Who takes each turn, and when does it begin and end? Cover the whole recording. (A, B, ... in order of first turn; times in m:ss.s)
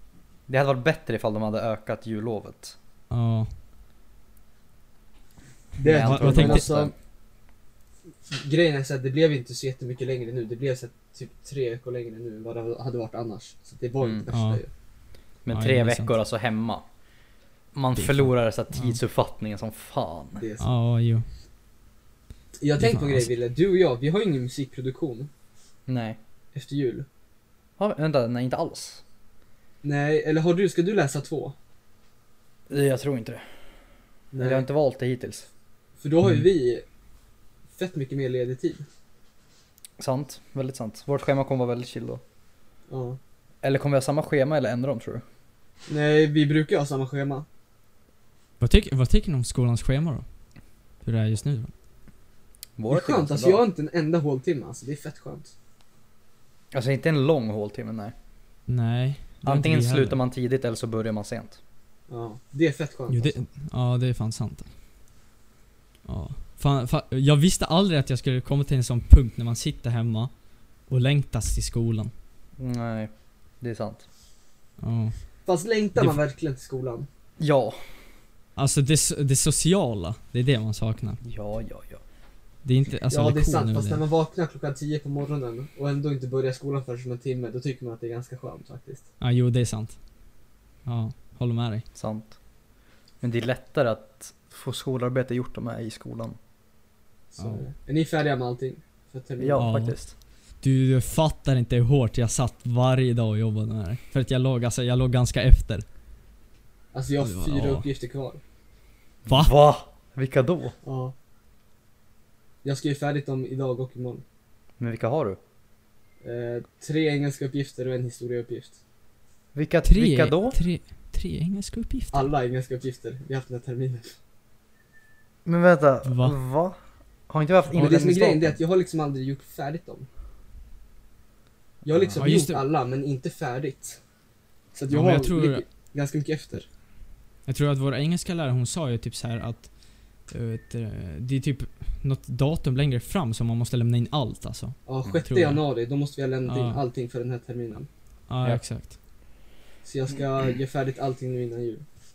0:00.5-0:02.8 A
0:03.1-0:03.5 B
0:05.8-0:06.9 C
0:05.8-0:06.9 A
0:06.0-0:06.7 B
0:08.3-0:14.7 C
0:14.3-0:14.6 B
0:15.4-0:16.8 A
0:15.5-0:16.1 B
0:17.7-0:20.4 A
0:18.0-0:19.0 B
0:20.3-0:20.7 C
0:20.6-0:21.2 B
0:22.6-0:25.3 C
0:22.8-0:23.3 B
0:25.9-0:26.2 A
0:26.5-0:27.0 C
0:27.8-0:29.0 A
0:29.8-0:31.5 C
0:32.7-0:33.6 A
0:34.3-0:34.7 C
0:34.4-0:35.5 A
0:36.0-0:36.8 C
0:37.7-0:38.8 C
0:40.0-0:42.2 A
0:42.9-0:43.2 C
0:43.6-0:45.2 A
0:45.9-0:47.4 C
0:48.6-0:50.2 B
0:51.0-0:51.7 B
0:52.8-0:53.6 A
0:52.9-0:55.5 C
0:56.7-0:58.1 A
0:58.7-1:00.2 B
0:59.4-1:01.6 A
1:02.1-1:03.4 C
1:03.1-1:04.7 B
1:06.0-1:10.3 B
1:10.9-1:12.1 B
1:12.6-1:14.0 A
1:14.8-1:15.2 B
1:15.4-1:17.1 C
1:17.4-1:17.9 A
1:18.6-1:21.2 B
1:21.2-1:22.0 A
1:22.6-1:24.0 B
1:23.1-1:29.0 C
1:29.2-1:30.0 B
1:30.8-1:31.8 B
1:31.9-1:32.4 A
1:33.2-1:36.4 A
1:37.3-1:39.7 C
1:37.4-1:37.7 B
1:39.4-1:40.1 A
1:39.6-1:39.9 B
1:40.6-1:45.8 B
1:46.9-1:48.4 C
1:47.2-1:47.9 B
1:49.2-1:50.8 A
1:50.8-1:51.2 C
1:52.6-1:54.2 C
1:54.8-1:55.4 A
1:56.2-1:58.8 C
1:59.5-2:00.6 A
1:59.8-2:02.3 B
2:02.1-2:04.2 C
2:05.4-2:06.8 A
2:06.0-2:06.4 B
2:07.3-2:08.6 A
2:07.7-2:10.1 C
2:11.8-2:14.0 C
2:11.9-2:12.2 A
2:12.2-2:12.6 B
2:14.7-2:16.7 C
2:14.9-2:15.6 B
2:17.5-2:19.7 B
2:20.2-2:25.6 B
2:24.9-2:27.9 C
2:26.5-2:26.8 B
2:28.3-2:29.0 B
2:29.8-2:31.8 C